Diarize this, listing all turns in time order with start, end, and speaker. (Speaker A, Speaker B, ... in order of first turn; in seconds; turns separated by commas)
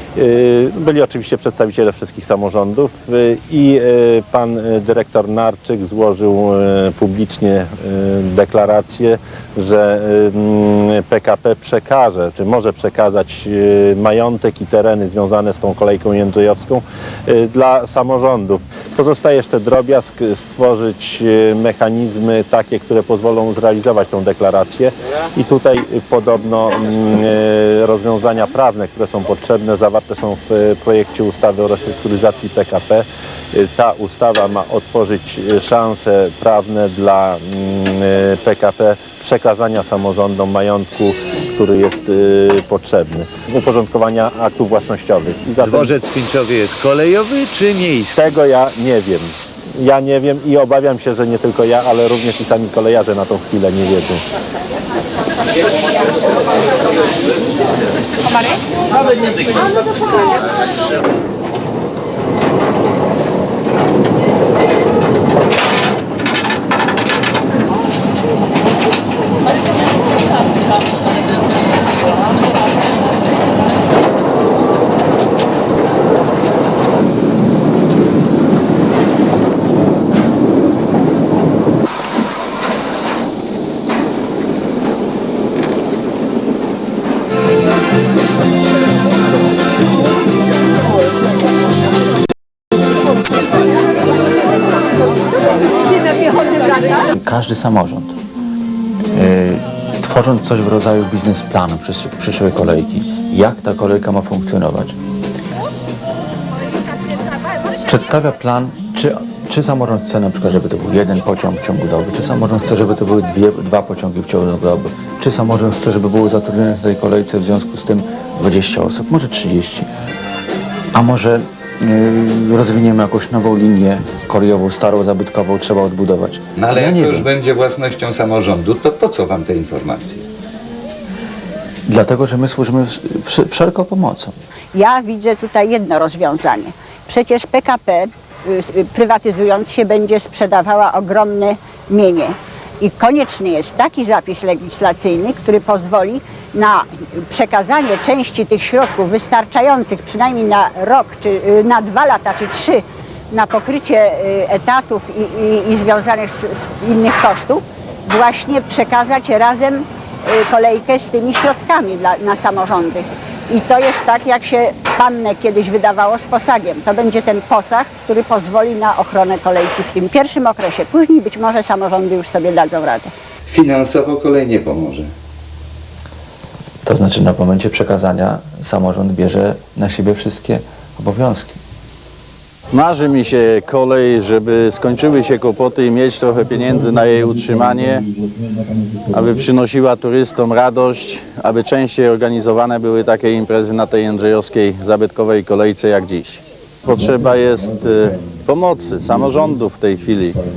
Speaker A: 0.1-45.9, Speaker B: 45.6-48.4, Speaker A: 48.1-54.2, Speaker C: 97.0-98.2, Speaker C: 99.1-105.0, Speaker C: 107.8-119.9, Speaker C: 120.9-127.3, Speaker B: 126.5-130.2, Speaker C: 131.9-134.3, Speaker D: 134.7-173.1, Speaker B: 173.5-175.1, Speaker C: 176.8-181.6, Speaker E: 182.7-188.1, Speaker E: 189.1-200.4